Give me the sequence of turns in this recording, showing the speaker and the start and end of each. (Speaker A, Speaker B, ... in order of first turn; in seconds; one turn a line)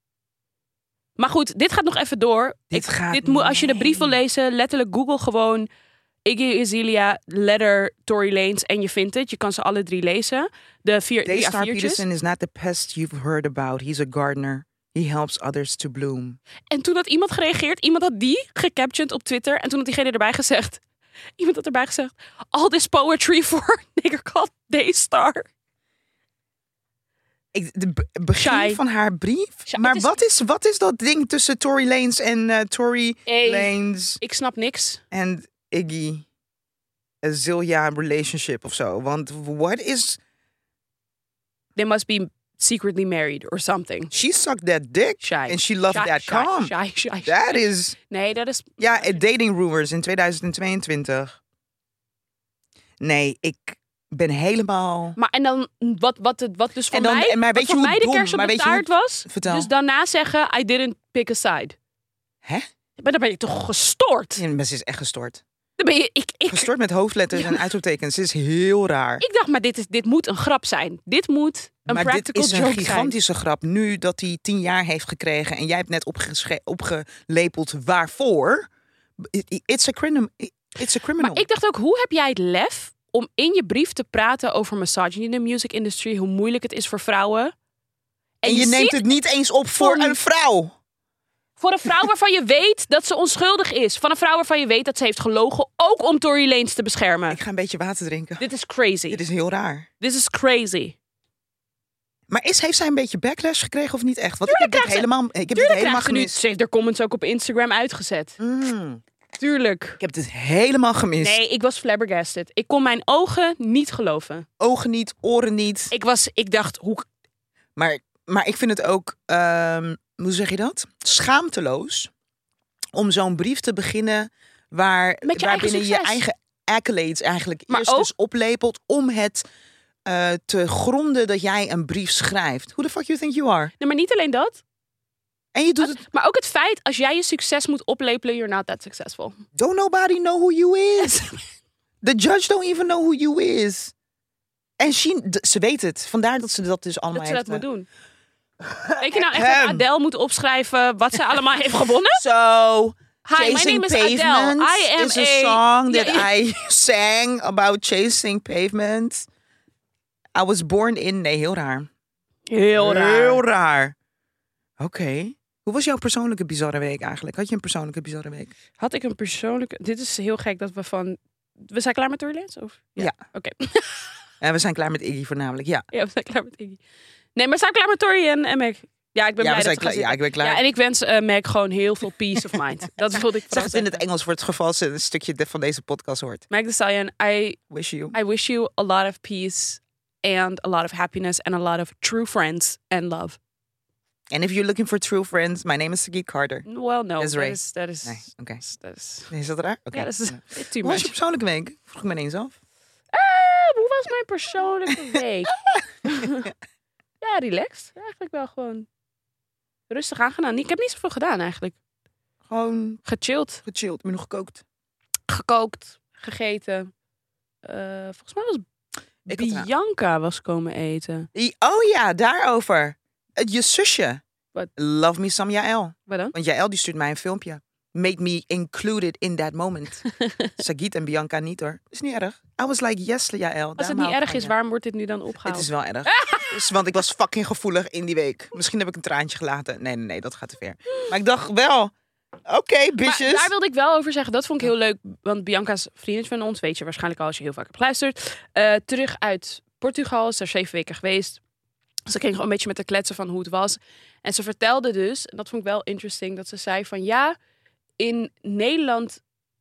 Speaker A: 1.2-5.7
Speaker B: 2.7-4.2
Speaker A: 6.2-12.0
Speaker B: 11.2-16.4
Speaker A: 16.7-20.8
Speaker A: 21.4-25.5
Speaker B: 27.5-34.2
Speaker A: 28.4-28.8
Speaker A: 29.7-30.2
Speaker A: 33.3-35.0
Speaker B: 35.1-36.3
Speaker B: 37.2-40.2
Speaker A: 41.8-44.1
Speaker B: 44.1-46.7
Speaker A: 45.2-49.1
Speaker B: 47.2-48.0
Speaker B: 48.8-51.4
Speaker B: 53.0-55.2
Speaker A: 55.2-61.8
Speaker B: 56.9-59.7
Speaker A: 63.0-64.4
Speaker B: 64.4-65.4
Speaker A: 65.8-66.7
Speaker B: 66.5-69.2
Speaker A: 67.3-67.6
Speaker A: 69.2-73.1
Speaker B: 71.9-81.5
Speaker A: 81.2-87.5
Speaker A: 88.4-89.0
Speaker B: 88.5-90.8
Speaker A: 89.8-90.2
Speaker A: 91.6-97.4
Speaker B: 97.3-98.4
Speaker A: 98.4-99.2
Speaker B: 99.1-99.9
Speaker A: 100.0-101.0
Speaker B: 102.3-106.4
Speaker A: 104.5-108.4
Speaker B: 108.4-109.0
Speaker A: 109.4-110.0
Speaker B: 110.0-111.4
Speaker A: 111.2-114.5
Speaker B: 114.6-115.9
Speaker A: 115.9-117.1
Speaker B: 117.8-122.1
Speaker B: 123.0-129.4
Speaker A: 125.2-126.2
Speaker A: 127.7-128.1
Speaker B: 130.1-133.7
Speaker A: 133.8-134.6
Speaker B: 135.5-136.0
Speaker A: 135.8-139.4
Speaker B: 139.6-141.4
Speaker B: 142.0-143.9
Speaker B: 144.8-147.6
Speaker A: 147.1-147.9
Speaker B: 148.6-149.8
Speaker A: 149.0-152.2
Speaker B: 152.2-159.3
Speaker A: 153.2-156.3
Speaker B: 160.3-161.9
Speaker A: 162.5-163.4
Speaker B: 162.8-163.9
Speaker B: 164.8-168.5
Speaker A: 168.8-174.1
Speaker B: 174.4-175.9
Speaker A: 175.9-176.8
Speaker A: 177.3-184.0
Speaker B: 179.4-180.6
Speaker B: 182.5-186.4
Speaker A: 186.5-187.6
Speaker B: 187.7-188.2
Speaker A: 188.1-193.4
Speaker B: 194.3-196.7
Speaker A: 196.7-199.3
Speaker B: 197.2-198.6
Speaker B: 199.3-202.6
Speaker A: 199.9-201.1
Speaker A: 203.1-206.5
Speaker B: 205.1-206.5
Speaker A: 207.2-208.9
Speaker A: 209.9-211.8
Speaker B: 212.5-213.0
Speaker A: 213.1-213.6
Speaker B: 213.7-214.6
Speaker A: 215.3-216.9
Speaker A: 217.6-218.6
Speaker B: 219.3-219.7
Speaker A: 219.3-221.3
Speaker B: 221.3-224.2
Speaker B: 224.8-230.0
Speaker A: 226.1-226.3
Speaker A: 230.1-230.5
Speaker B: 230.6-234.5
Speaker A: 233.8-236.6
Speaker B: 235.4-241.9
Speaker B: 242.5-243.5
Speaker A: 243.0-251.4
Speaker A: 252.1-257.4
Speaker A: 258.0-259.2